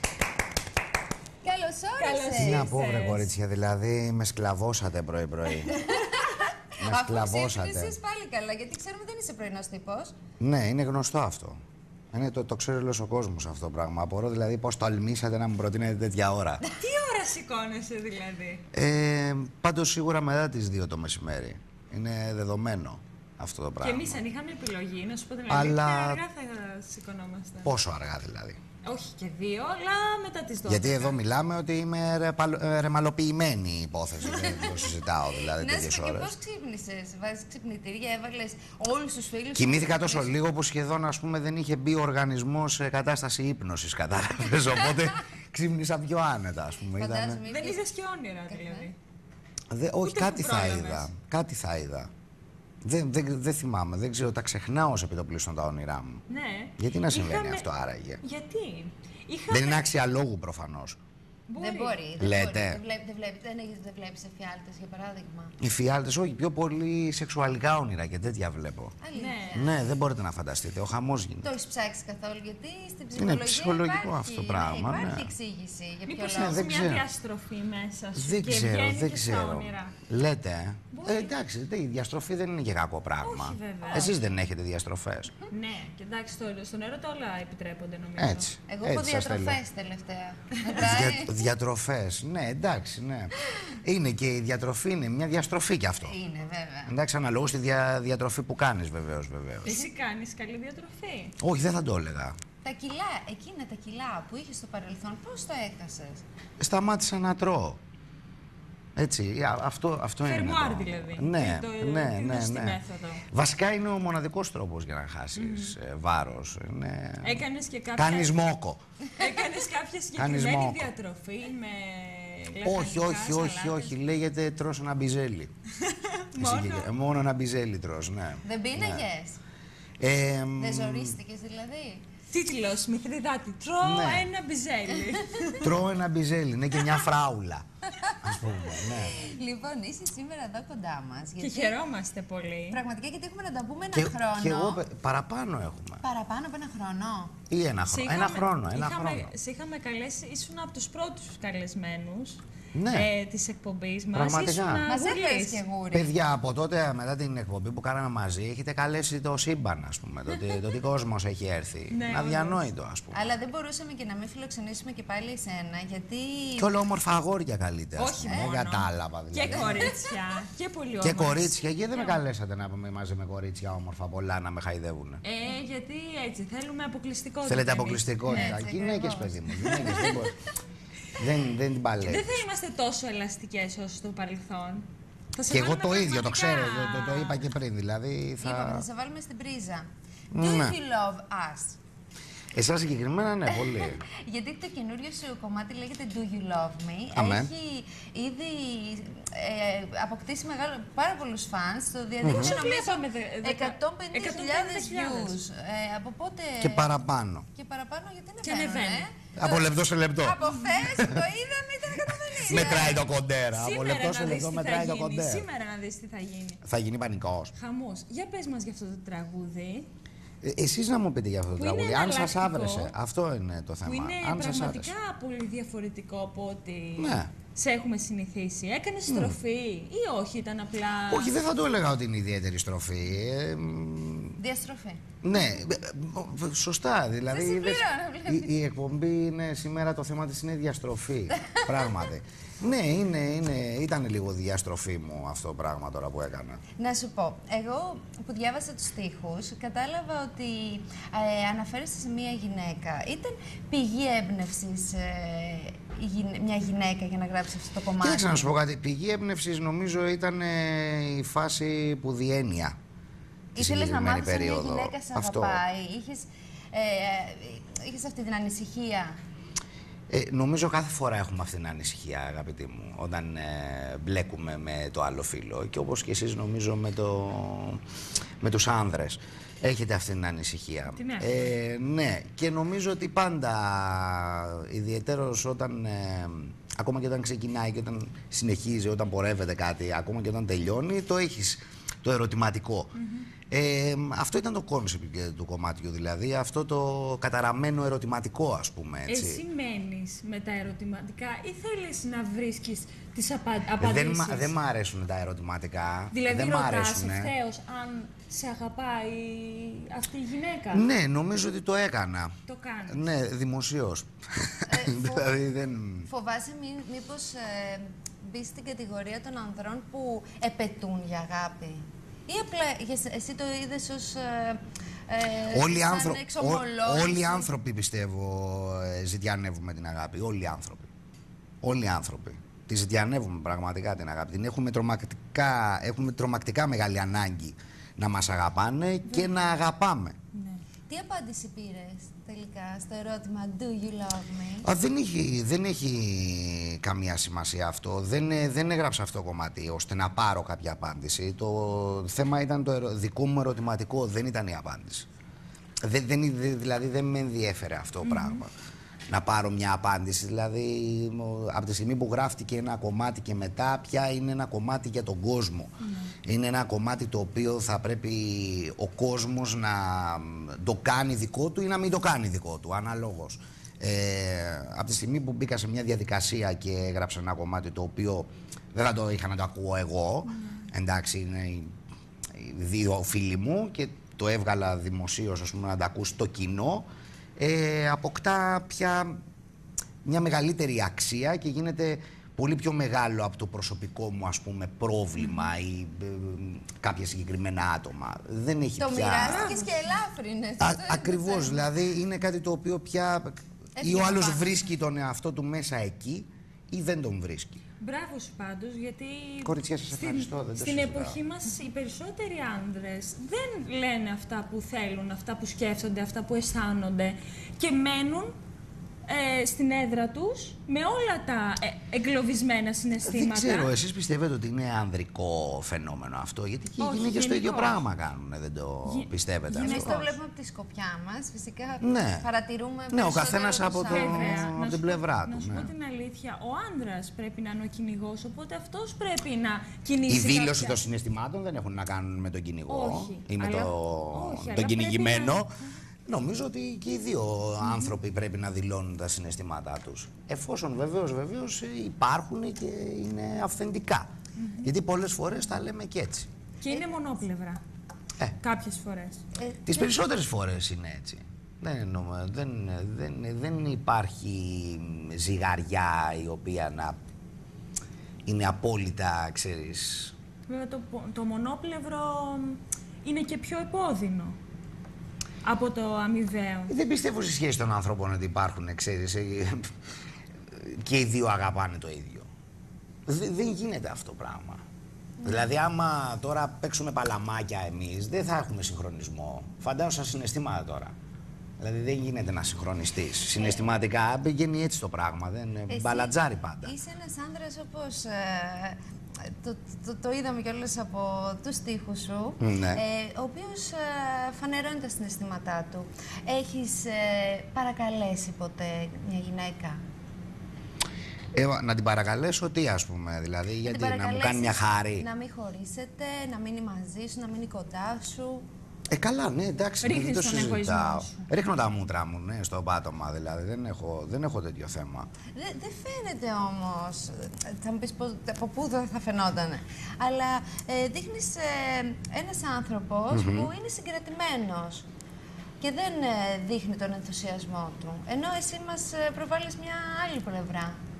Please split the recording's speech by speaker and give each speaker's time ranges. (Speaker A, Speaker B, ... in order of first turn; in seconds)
Speaker A: 1.4-2.8, 5.7-10.2, 34.3-34.9, 35.5-40.3, 47.0-47.8, 48.5-48.9, 61.6-65.6, 69.0-69.8, 71.4-76.7, 88.7-91.4, 96.0-96.9, 102.6-106.2, 128.4-129.4, 130.6-132.0, 138.8-141.8, 142.7-144.8, 146.0-147.3, 154.9-156.1, 163.1-166.7, 178.2-179.8, 188.4-191.8, 193.5-207.0, 207.5-213.0, 234.4-235.0, 237.3-238.6, 241.4-242.0, 246.8-258.5, 263.6-269.2, 314.7-315.4, 316.1-327.5, 340.9-344.7, 398.8-401.7, 403.8-404.6, 429.5-434.5, 459.4-460.0, 495.7-509.8, 513.6-518.5, 525.3-534.9, 535.6-540.8
Speaker B: 2.0-3.3, 16.7-18.6, 23.8-27.7, 28.8-31.2, 47.5-49.0, 50.0-51.1, 56.3-57.7, 58.2-59.9, 61.5-62.0, 69.2-69.7, 76.1-80.0, 80.9-81.3, 83.2-84.2, 85.5-88.5, 99.6-101.4, 110.2-113.2, 115.3-115.8, 117.2-118.3, 119.2-123.9, 125.8-126.9, 132.3-135.8, 141.4-142.8, 147.9-155.6, 161.9-162.6, 167.9-172.2, 175.2-178.6, 179.6-180.2, 182.0-187.4, 202.2-205.4, 208.4-209.1, 212.4-216.6, 217.5-219.9, 221.6-222.9, 223.8-231.3, 280.9-281.5, 293.0-293.3, 299.1-304.5, 306.1-310.9, 312.5-313.1, 340.3-340.6, 358.0-358.4, 399.3-399.6, 407.8-418.4, 419.1-423.7, 426.8-427.9, 428.9-430.1, 433.9-440.8, 442.7-445.5, 454.4-454.7, 456.6-457.6, 458.4-459.2, 470.5-474.4, 475.4-476.7, 519.8-521.3
Speaker C: 2.3-5.9, 6.8-8.0, 10.4-11.6, 12.1-16.6, 18.7-24.2, 25.5-26.2, 27.6-28.6, 30.7-36.3, 39.5-47.4, 49.7-52.1, 52.8-56.2, 56.8-58.2, 59.5-61.0, 62.2-62.8, 65.6-69.0, 69.5-71.5, 73.2-75.3, 76.2-77.1, 78.2-85.3, 88.2-89.6, 90.8-96.1, 96.9-99.8, 101.4-102.3, 106.6-107.8, 109.0-117.4, 118.0-118.8, 120.2-120.9, 122.6-125.5, 126.3-129.0, 130.0-131.2, 133.8-134.3, 135.6-137.6, 138.2-139.1, 143.9-146.0, 147.5-149.3, 152.7-153.1, 154.1-154.8, 155.9-163.3, 166.6-169.9, 171.0-175.2, 177.4-180.3, 181.2-182.4, 185.5-188.8, 190.3-190.8, 192.5-194.0, 197.1-197.5, 202.2-202.6, 206.6-207.4, 209.3-210.4, 210.9-211.2, 212.5-215.4, 216.6-217.5, 220.4-224.9, 227.0-227.3, 229.1-229.4, 231.1-234.4, 235.2-246.6, 258.0-262.8, 263.6-265.6, 270.1-277.8, 278.4-292.9, 293.5-299.4, 303.8-307.3, 310.7-312.4, 312.9-316.1, 325.5-330.9, 331.6-340.2, 344.6-355.1, 355.8-358.5, 359.1-365.7, 366.2-381.7, 382.3-386.9, 387.4-389.2, 390.1-399.6, 400.6-407.6, 409.4-411.2, 423.0-430.0, 431.8-432.2, 432.9-435.7, 440.1-445.6, 446.1-454.1, 454.6-456.3, 459.7-467.0, 468.2-470.1, 476.7-479.7, 480.5-482.3, 483.1-484.6, 485.2-490.9, 491.6-496.7, 502.4-502.8, 511.3-515.1, 518.9-525.1, 533.1-533.5